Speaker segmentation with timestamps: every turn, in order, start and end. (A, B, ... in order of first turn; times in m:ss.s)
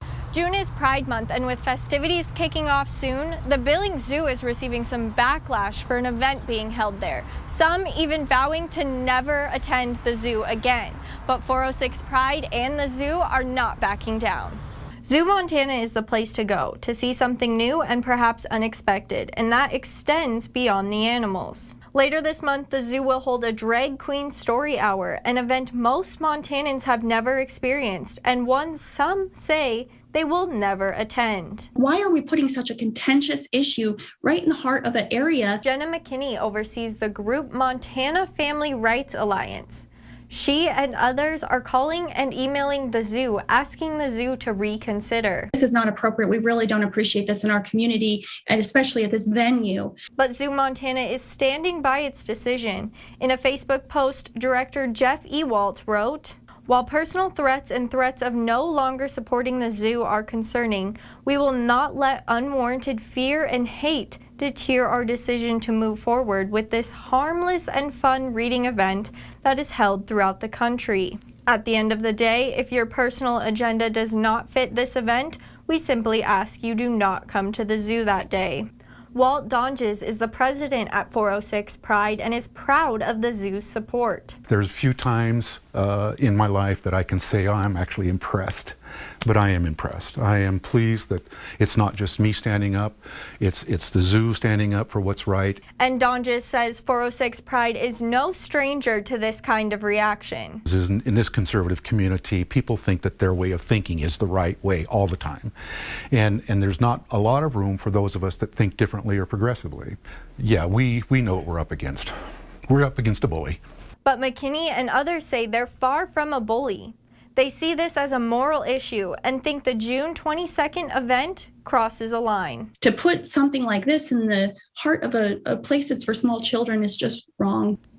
0:00.3-0:31.7 A
0:31.8-0:35.6 B
0:35.6-0:45.5 A
0:45.5-0:50.0 B
0:50.2-1:24.4 A
1:24.5-1:35.6 C
1:35.8-1:40.6 A
1:40.6-1:45.5 C
1:46.1-1:52.1 C
1:52.7-1:53.6 C
1:54.0-2:02.7 A
2:02.8-2:07.8 B